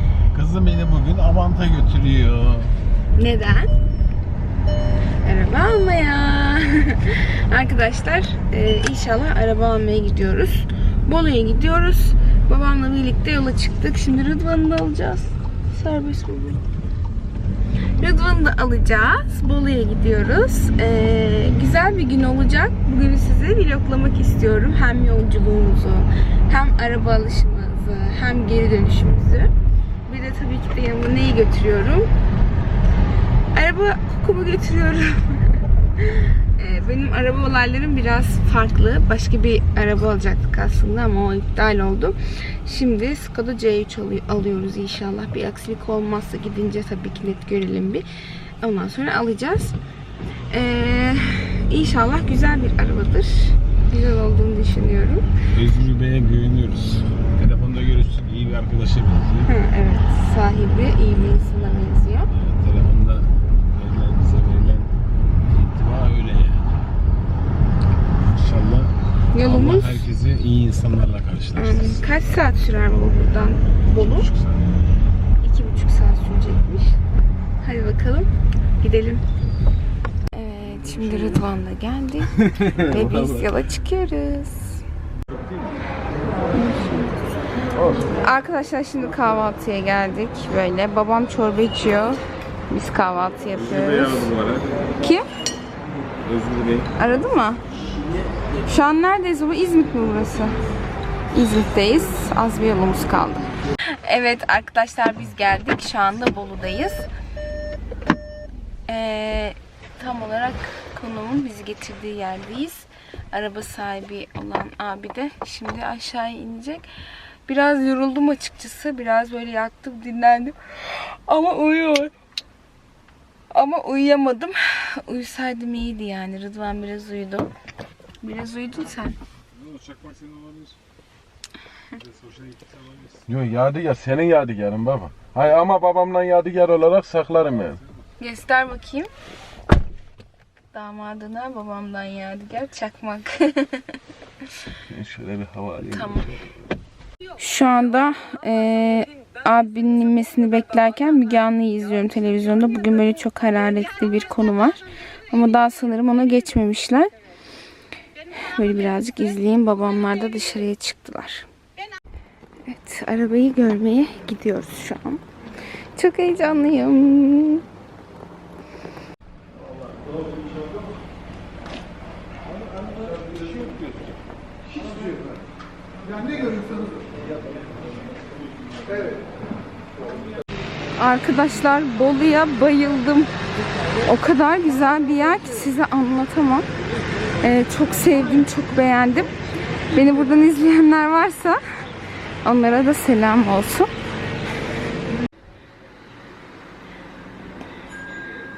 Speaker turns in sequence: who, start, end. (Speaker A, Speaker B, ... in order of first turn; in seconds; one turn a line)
Speaker A: 0.3-2.8
Speaker B: 3.1-3.7
Speaker B: 5.2-16.6
Speaker B: 18.0-29.5
Speaker B: 30.1-32.1
Speaker B: 33.5-48.0
Speaker B: 48.6-49.8
Speaker B: 50.5-55.2
Speaker A: 55.5-59.5
Speaker B: 59.5-62.3
Speaker A: 62.3-64.9
Speaker A: 65.5-66.8
Speaker A: 68.3-72.0
Speaker B: 69.3-70.0
Speaker B: 71.5-74.3
Speaker A: 74.1-74.3
Speaker B: 75.4-77.0
Speaker B: 77.6-78.3
Speaker B: 78.8-79.2
Speaker B: 80.3-84.8
Speaker A: 82.5-83.1
Speaker B: 86.5-87.4
Speaker C: 87.7-88.2
Speaker B: 88.1-92.2
Speaker B: 92.7-94.3
Speaker A: 93.6-94.8
Speaker B: 95.0-95.2
Speaker A: 96.2-96.9
Speaker B: 96.9-97.6
Speaker B: 98.6-100.5
Speaker B: 101.3-103.5
Speaker B: 104.0-107.0
Speaker B: 108.9-116.8
Speaker B: 117.5-122.1
Speaker B: 123.5-127.5
Speaker B: 128.2-129.2
Speaker A: 129.5-130.8
Speaker A: 131.9-133.3
Speaker C: 133.3-137.8
Speaker B: 138.2-139.1
Speaker B: 140.7-143.9
Speaker C: 144.9-146.4
Speaker B: 145.9-146.3
Speaker B: 147.4-157.1
Speaker B: 158.3-161.5
Speaker B: 162.7-165.2
Speaker B: 165.9-167.6
Speaker A: 172.7-173.8
Speaker A: 176.2-176.7
Speaker B: 180.9-183.3
Speaker B: 184.0-186.7
Speaker B: 187.4-189.3
Speaker B: 189.9-191.6
Speaker B: 192.4-193.9